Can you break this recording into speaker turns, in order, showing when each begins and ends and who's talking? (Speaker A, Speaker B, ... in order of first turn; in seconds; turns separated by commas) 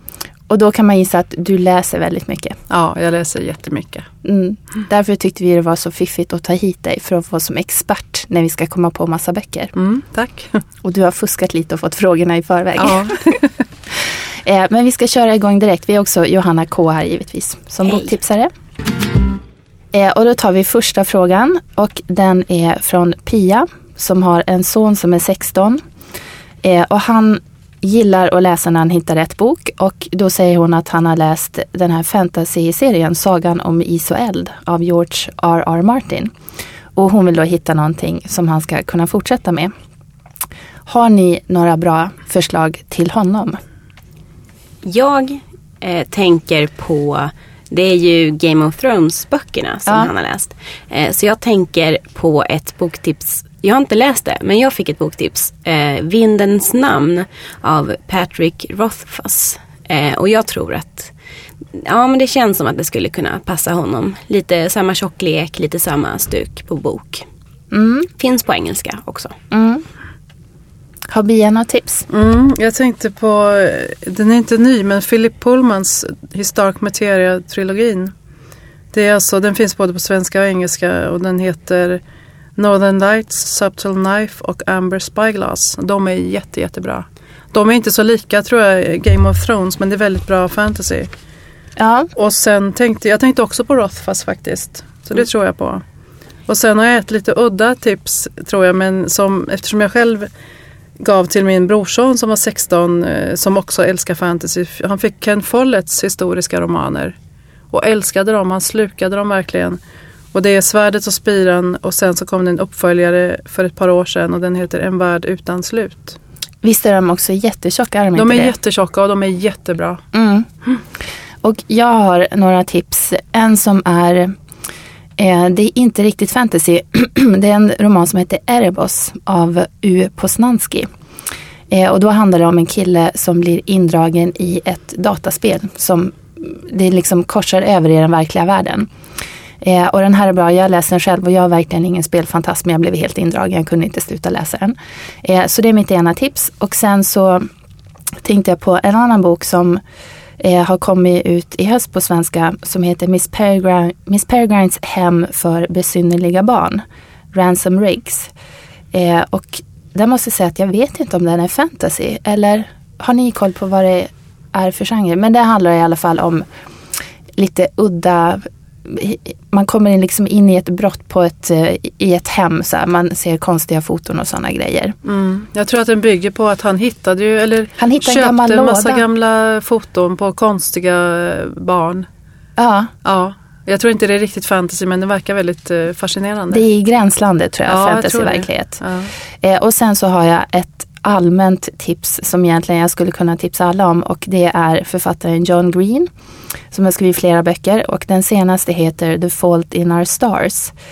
Speaker A: 0.5-2.6, Speaker B: 2.7-4.1, Speaker A: 4.2-9.7, Speaker B: 9.8-10.6, Speaker A: 10.8-13.1, Speaker B: 12.8-13.5, Speaker A: 14.0-18.5, Speaker A: 19.9-25.8, Speaker A: 26.6-36.3, Speaker A: 36.9-39.7, Speaker A: 40.9-43.6, Speaker C: 44.8-61.1, Speaker C: 61.8-67.2, Speaker A: 67.7-68.1, Speaker C: 68.2-69.3, Speaker A: 69.5-69.8, Speaker A: 71.1-72.0, Speaker B: 72.1-78.1, Speaker B: 78.9-82.0, Speaker B: 82.6-91.1, Speaker A: 91.8-92.1, Speaker B: 92.2-95.8, Speaker B: 96.5-100.3, Speaker B: 101.0-107.1, Speaker B: 107.7-109.8, Speaker B: 110.3-116.2, Speaker A: 116.6-118.5, Speaker B: 118.2-120.0, Speaker A: 120.1-120.5, Speaker A: 121.4-124.3, Speaker A: 125.2-130.9, Speaker A: 131.7-138.9, Speaker A: 139.6-147.5, Speaker A: 148.2-149.8, Speaker A: 150.4-158.3, Speaker A: 158.9-166.4, Speaker A: 167.4-174.9, Speaker B: 175.0-182.1, Speaker A: 177.8-179.0, Speaker A: 182.6-182.9, Speaker B: 183.0-186.6, Speaker A: 186.5-188.8, Speaker B: 187.7-189.1, Speaker A: 189.4-196.1, Speaker A: 196.7-200.7